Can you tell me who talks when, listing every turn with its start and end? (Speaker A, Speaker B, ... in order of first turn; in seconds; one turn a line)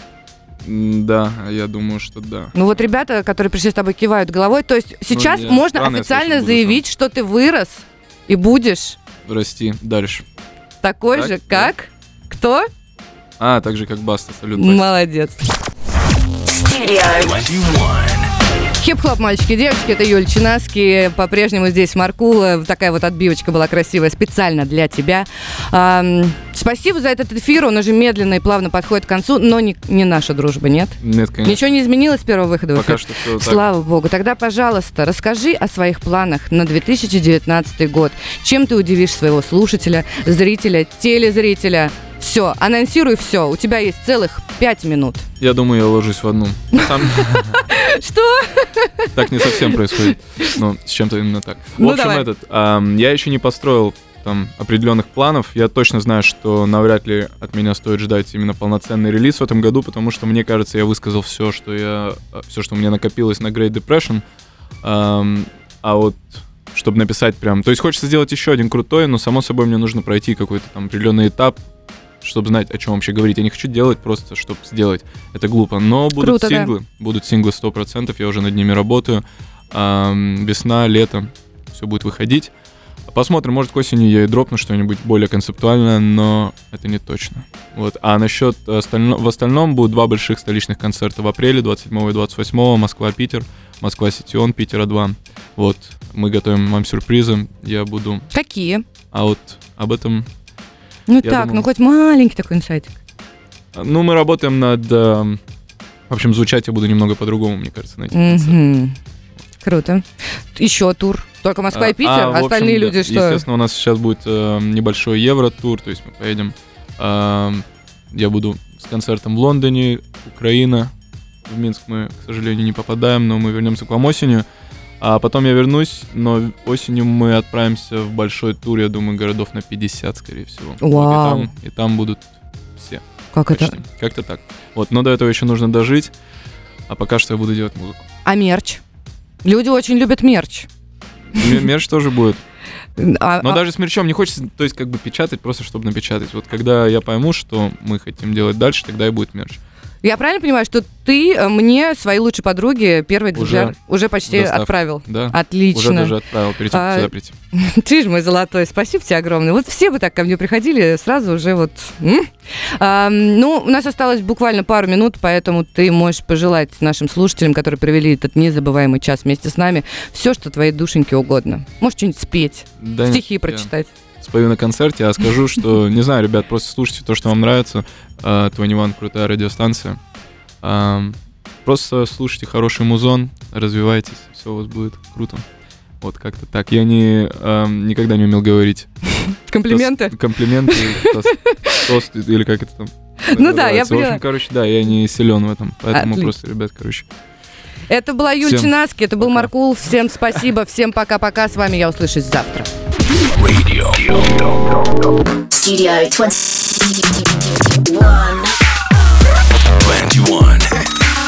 Speaker A: 0.6-2.5
Speaker B: 2.5-9.0
Speaker A: 5.1-6.8
Speaker A: 9.2-10.2
Speaker B: 10.8-12.7
Speaker A: 11.1-11.7
Speaker A: 13.4-14.9
Speaker B: 14.6-15.4
Speaker C: 16.5-17.3
Speaker D: 17.2-18.3
Speaker B: 18.8-45.3
Speaker A: 31.0-31.6
Speaker A: 32.7-33.6
Speaker A: 45.4-47.6
Speaker B: 46.8-50.5
Speaker A: 49.1-64.2
Speaker B: 51.8-52.3
Speaker A: 64.8-71.6
Speaker A: 72.2-82.5
Speaker B: 76.2-76.8
Speaker A: 83.1-98.3
Speaker B: 98.3-98.8
Speaker A: 99.1-100.3
Speaker B: 101.1-102.9
Speaker A: 101.2-101.7
Speaker A: 103.7-105.4
Speaker A: 106.1-108.6
Speaker B: 108.1-109.0
Speaker B: 109.6-113.4
Speaker A: 111.7-120.9
Speaker A: 121.5-124.5
Speaker A: 125.0-136.1
Speaker B: 130.8-131.5
Speaker B: 133.3-133.8
Speaker A: 136.9-138.0
Speaker B: 138.2-138.8
Speaker B: 139.4-140.7
Speaker A: 141.3-142.4
Speaker B: 143.0-143.6
Speaker A: 143.4-149.6
Speaker B: 150.0-156.2
Speaker A: 153.3-157.3
Speaker B: 156.7-173.9
Speaker A: 172.8-180.0
Speaker A: 180.6-185.4
Speaker A: 186.0-188.9
Speaker B: 189.2-191.8
Speaker A: 189.7-197.1
Speaker B: 193.3-194.2
Speaker B: 195.9-196.3
Speaker B: 197.9-202.7
Speaker A: 198.4-199.5
Speaker D: 203.3-205.2
Speaker C: 205.5-208.5
Speaker D: 209.8-210.7